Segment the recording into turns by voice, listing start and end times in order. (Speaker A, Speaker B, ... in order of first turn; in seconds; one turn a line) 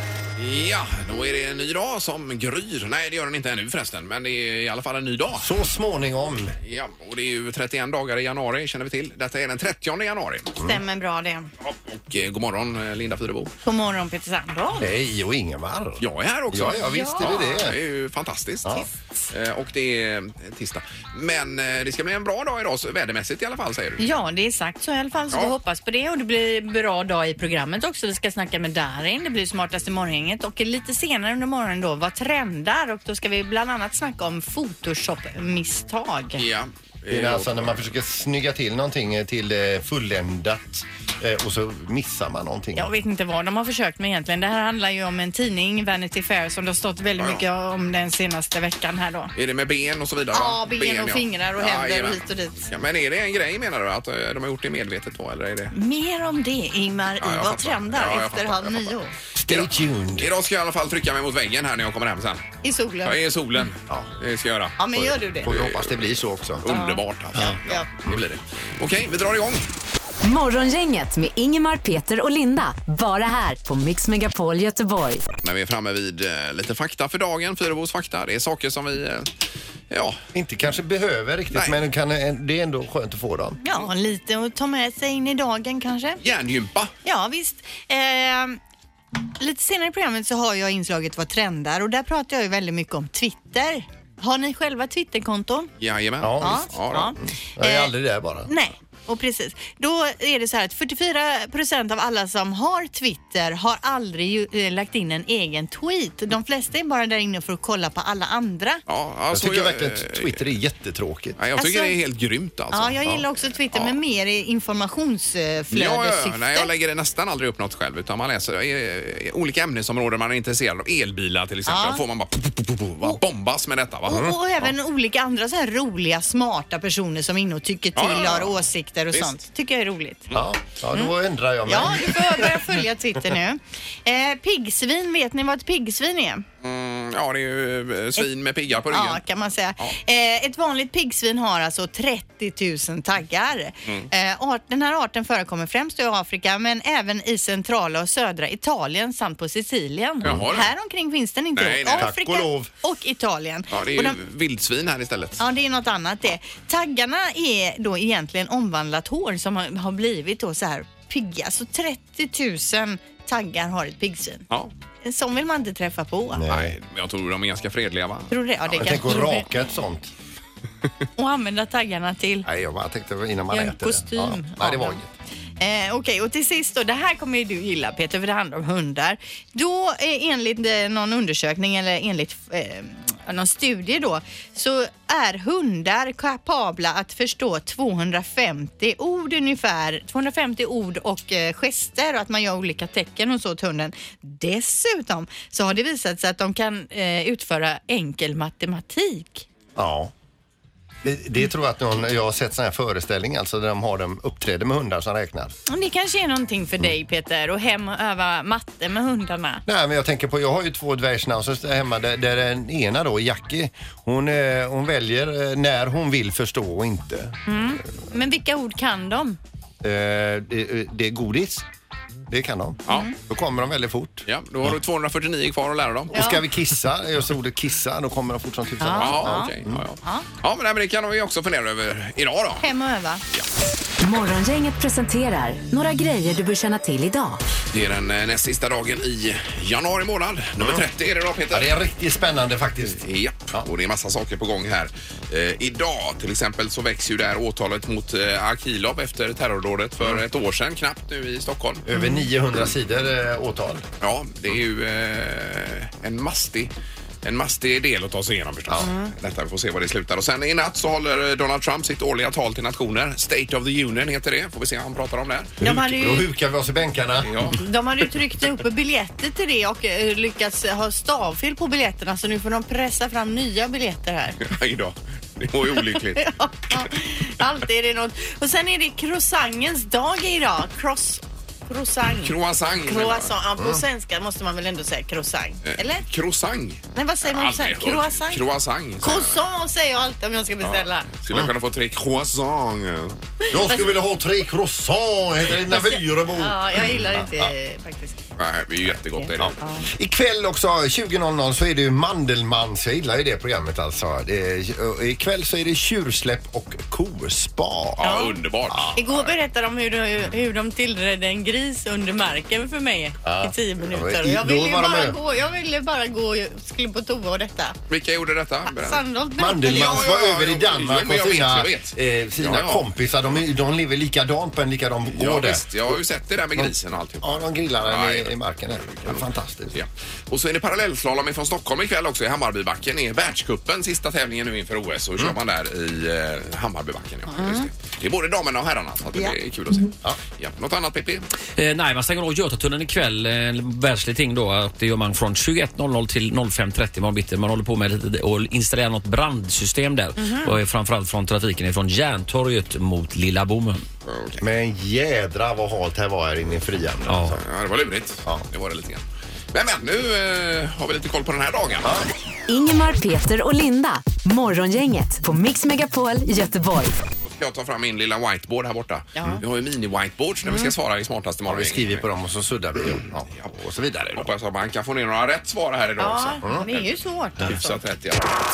Speaker A: 0.4-5.5
Speaker B: 5.4-6.6
Speaker A: 6.7-10.5
Speaker B: 10.6-10.8
Speaker C: 10.6-11.5
Speaker A: 11.6-13.5
Speaker C: 13.6-14.9
Speaker B: 14.8-17.8
Speaker A: 16.0-24.1
Speaker C: 16.8-17.5
Speaker C: 24.0-36.4
Speaker A: 25.3-25.6
Speaker A: 36.4-37.9
Speaker B: 37.1-42.9
Speaker C: 42.8-49.3
Speaker A: 47.2-47.4
Speaker A: 49.4-55.8
Speaker C: 50.3-52.7
Speaker C: 55.7-59.1
Speaker A: 57.2-62.5
Speaker B: 59.4-60.3
Speaker C: 62.6-63.2
Speaker A: 63.0-69.7
Speaker C: 64.8-65.5
Speaker B: 65.4-66.7
Speaker C: 66.7-67.9
Speaker D: 70.2-75.3
Speaker A: 75.4-79.3
Speaker A: 79.9-80.2
Speaker B: 80.3-83.6
Speaker A: 81.5-81.8
Speaker C: 83.6-86.2
Speaker A: 86.2-86.9
Speaker C: 87.0-88.6
Speaker C: 89.4-95.7
Speaker A: 95.8-97.1
Speaker B: 96.2-98.5
Speaker C: 96.4-97.9
Speaker C: 98.5-108.8
Speaker A: 108.9-110.5
Speaker B: 109.3-111.4
Speaker A: 111.4-113.0
Speaker C: 111.6-112.0
Speaker C: 112.7-116.7
Speaker A: 113.7-114.0
Speaker A: 115.7-124.3
Speaker C: 121.7-122.0
Speaker B: 124.1-124.3
Speaker C: 124.1-130.3
Speaker A: 128.0-128.6
Speaker B: 130.3-132.7
Speaker C: 131.7-136.4
Speaker A: 136.6-139.2
Speaker C: 138.9-154.2
Speaker A: 150.2-150.7
Speaker A: 151.6-152.1
Speaker B: 152.0-152.7
Speaker A: 153.7-155.4
Speaker C: 155.4-164.5
Speaker C: 165.0-166.4
Speaker B: 166.3-166.8
Speaker A: 166.5-169.0
Speaker C: 168.3-169.4
Speaker B: 168.8-170.1
Speaker C: 171.2-172.5
Speaker B: 172.4-175.1
Speaker C: 173.5-175.0
Speaker C: 175.6-199.5
Speaker B: 199.8-200.1
Speaker B: 201.0-205.5
Speaker C: 205.7-209.6
Speaker B: 209.7-217.6
Speaker C: 217.5-219.4
Speaker B: 219.8-221.7
Speaker B: 222.3-224.3
Speaker C: 222.9-223.2
Speaker A: 224.3-226.2
Speaker B: 226.1-229.8
Speaker C: 226.1-226.4
Speaker C: 228.8-230.3
Speaker A: 229.0-232.7
Speaker C: 232.6-233.2
Speaker D: 234.0-237.4
Speaker A: 237.7-241.8
Speaker B: 241.5-243.7
Speaker A: 243.0-251.9
Speaker B: 251.9-253.8
Speaker C: 251.9-252.3
Speaker A: 254.0-256.7
Speaker A: 257.2-265.6
Speaker C: 258.8-259.1
Speaker C: 265.6-266.3
Speaker B: 265.6-267.5
Speaker A: 267.2-267.6
Speaker C: 267.6-274.5
Speaker A: 274.5-276.3
Speaker C: 276.2-286.0
Speaker A: 282.2-283.3
Speaker B: 283.6-283.8
Speaker A: 285.7-289.4
Speaker C: 286.9-288.4
Speaker C: 289.0-291.1
Speaker A: 290.6-293.2
Speaker C: 293.4-293.9
Speaker B: 293.5-297.5
Speaker C: 295.7-298.2
Speaker A: 298.4-299.5
Speaker C: 299.1-299.9
Speaker B: 299.4-309.0
Speaker A: 308.0-309.3
Speaker C: 308.0-308.4
Speaker C: 308.9-317.8
Speaker B: 313.2-315.2
Speaker A: 317.9-319.0
Speaker C: 318.8-320.1
Speaker B: 319.4-326.0
Speaker A: 319.6-322.9
Speaker A: 325.1-341.2
Speaker B: 326.6-329.8
Speaker C: 337.3-337.7
Speaker E: 341.6-353.9
Speaker C: 350.2-350.5
Speaker A: 354.1-354.4
Speaker B: 354.4-357.4
Speaker E: 357.1-357.4
Speaker A: 357.3-361.9
Speaker B: 361.8-362.1
Speaker D: 362.5-367.0
Speaker A: 367.2-372.1
Speaker C: 369.2-369.4
Speaker C: 370.5-370.7
Speaker B: 371.5-374.3
Speaker A: 374.1-376.8
Speaker C: 376.0-377.7
Speaker A: 377.4-378.3